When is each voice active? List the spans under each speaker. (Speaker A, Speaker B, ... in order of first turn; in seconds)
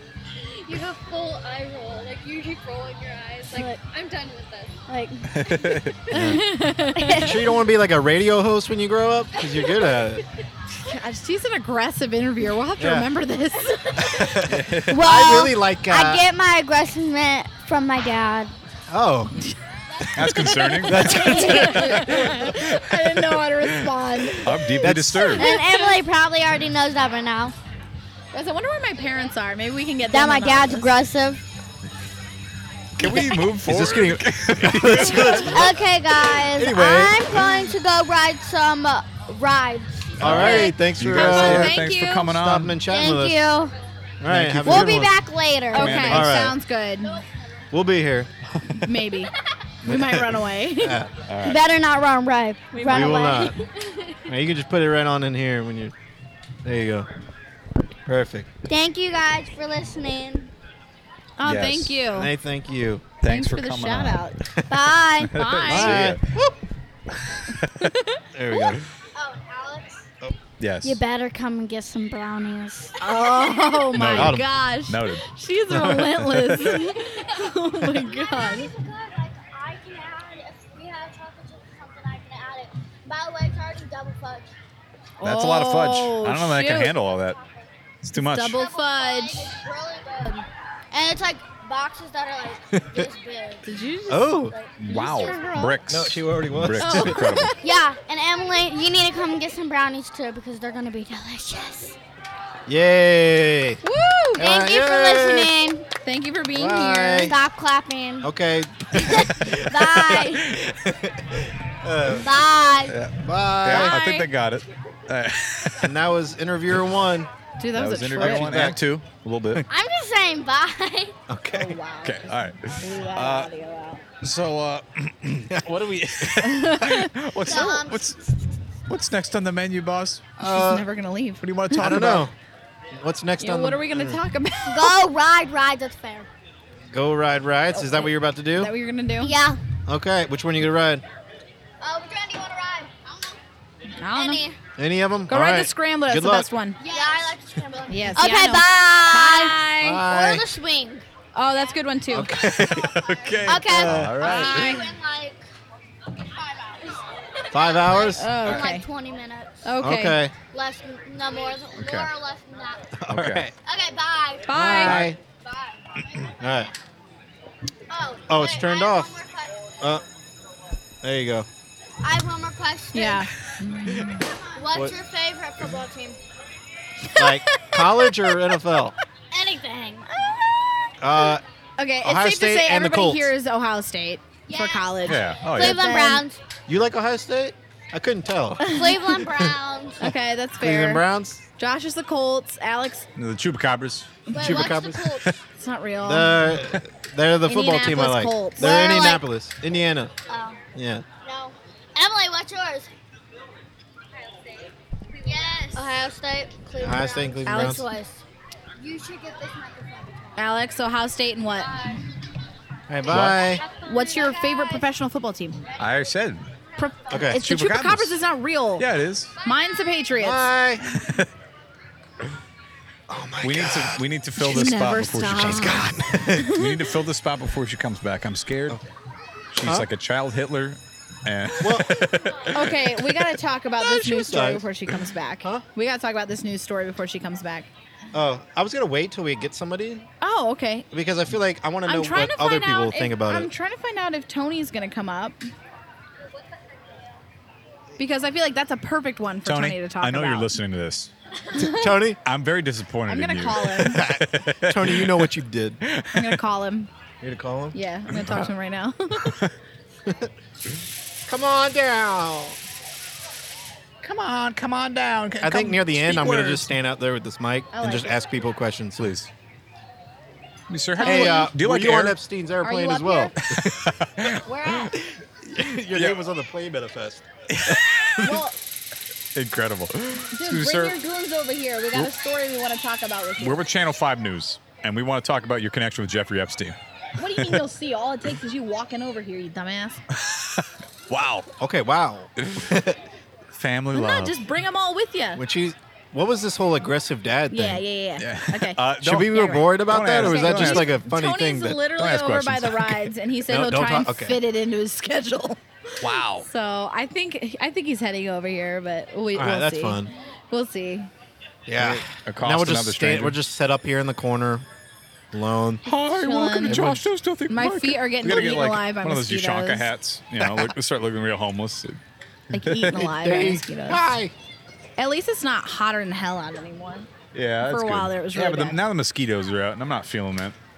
Speaker A: 0.5-4.8, 9.4-9.8
Speaker B: 4.9-5.3, 6.9-7.4, 14.9-18.5, 21.3-21.8, 25.4-27.6, 30.1-31.4, 35.4-40.7, 42.9-43.7, 44.6-46.1, 51.4-53.6, 58.7-60.5, 64.7-65.3, 69.2-70.1, 70.8-73.0, 77.0-84.5, 87.3-87.6, 88.6-93.7, 94.5-95.6, 97.6-102.0, 104.4-105.9, 107.2-108.3, 109.0-110.5, 112.1-113.0, 119.7-121.2, 127.4-128.4, 134.7-136.3, 139.2-139.6, 141.8-143.4, 144.1-144.6, 146.8-151.1, 152.7-155.4, 156.2-159.7, 160.5-163.0, 163.6-164.6, 165.4-166.3, 167.9-169.6, 172.0-173.3, 174.2-176.2, 179.3-180.8, 184.5-186.4, 188.7-190.0, 194.3-195.3, 198.6-199.2, 200.3-200.6, 201.2-202.9, 205.2-208.2, 208.8-210.4, 213.4-214.8
Speaker C: 5.3-6.0, 14.6-15.0, 20.1-23.9, 24.4-25.5, 33.0-35.7, 40.2-42.8, 44.3-44.9, 45.7-46.4, 51.3-51.6, 61.4-62.0, 63.2-64.3, 65.3-66.2, 67.2-67.9, 70.6-71.0, 73.9-75.2, 76.3-76.8, 85.2-87.4, 88.0-88.6, 94.8-97.6, 112.9-115.9, 117.8-119.7, 122.0-123.5, 124.2-128.2, 128.9-130.2, 131.4-132.3, 152.6-154.8, 161.8-162.1, 163.1-163.5, 185.1-185.8, 193.2-194.1, 213.1-213.4, 215.8-216.5, 217.3-218.2, 218.8-219.3, 220.9-221.3, 223.4-228.8, 229.5-232.7, 249.4-251.1, 252.2-255.3, 255.8-256.4, 258.1-258.5, 259.3-259.5, 264.0-266.7, 269.0-269.3, 270.7-272.2, 273.5-274.9, 277.5-278.3, 279.4-281.0, 283.4-286.8, 290.1-291.5, 292.4-292.7, 293.5-294.4, 298.2-301.0, 301.9-303.1, 306.0-306.5, 311.8-313.4, 315.9-322.0, 322.5-323.0, 327.3-330.6
Speaker D: 6.1-6.4, 7.2-10.2, 12.8-13.1, 14.1-16.2, 18.9-19.4, 20.8-22.3, 24.8-25.4, 33.6-37.4, 40.2-43.5, 44.2-45.1, 46.0-46.6, 47.7-48.3, 49.8-51.2, 52.9-53.6, 54.3-55.9, 56.6-57.1, 58.1-58.5, 62.1-63.1, 65.7-66.5, 68.3-68.8, 74.2-74.4, 75.8-76.1, 92.8-93.1, 94.1-94.5, 95.9-97.2, 102.7-103.8, 104.4-105.5, 106.5-107.4, 108.2-112.3, 113.2-114.0, 115.8-117.3, 118.2-118.8, 121.3-121.8, 130.4-130.8, 131.8-132.3, 132.9-134.2, 136.9-138.7, 139.9-141.0, 144.8-146.5, 149.8-150.5, 152.1-153.0, 153.7-154.2, 157.5-158.4, 159.8-160.3, 163.0-163.5, 164.5-165.2, 166.2-166.7, 168.3-169.2, 171.0-171.5, 177.2-178.9, 181.0-181.4, 182.0-183.3, 186.7-189.6, 190.6-191.4, 194.4-195.2, 196.0-200.1, 200.8-201.1, 206.8-207.8, 212.9-213.7, 217.1-217.4, 220.2-220.9, 223.1-224.0, 225.4-226.5, 231.6-232.3, 233.8-234.7, 238.1-240.1, 240.9-243.5, 251.6-252.2, 253.8-255.8, 257.2-257.8, 261.3-262.6, 265.4-269.1, 271.0-273.6, 275.3-277.8, 291.6-293.0, 295.4-297.8, 299.0-301.8, 303.5-304.4, 309.3-310.1, 311.7-314.7, 315.3-315.8, 316.7-317.0, 320.4-320.7, 323.0-324.3
Speaker E: 6.1-7.3, 10.8-14.5, 20.2-26.0, 28.3-30.9, 40.3-42.3, 45.7-47.2, 48.7-49.3, 49.8-51.0, 52.7-53.0, 61.4-62.3, 63.3-64.4, 65.3-66.1, 67.8-68.2, 73.0-78.7, 85.2-87.0, 88.2-89.6, 93.7-95.8, 96.8-97.6, 103.8-104.5, 106.0-107.3, 113.7-114.3, 117.6-118.5, 121.5-124.0, 126.4-127.8, 130.4-132.1, 133.4-135.0, 137.8-139.3, 144.0-144.4, 145.3-146.8, 147.9-150.1, 151.3-152.4, 154.2-154.9, 158.1-158.9, 159.6-160.2, 164.5-165.1, 172.9-174.3, 177.1-178.5, 181.8-186.2, 188.6-189.0, 190.0-191.0, 191.6-193.1, 195.6-196.4, 197.5-198.7, 207.4-207.8, 210.4-211.8, 213.8-215.6, 216.8-218.9, 219.4-220.5, 224.4-226.8, 232.5-237.7, 240.2-240.9, 241.8-245.4, 248.0-250.5, 251.5-251.9, 253.1-254.0, 256.1-256.9, 257.7-259.4, 267.7-268.2, 271.0-271.5, 272.6-273.3, 274.4-274.9, 278.2-278.6, 280.3-283.6, 287.2-290.0, 293.9-295.4, 297.5-311.1, 316.1-319.9, 322.5-324.1, 325.0-327.1, 327.6-328.8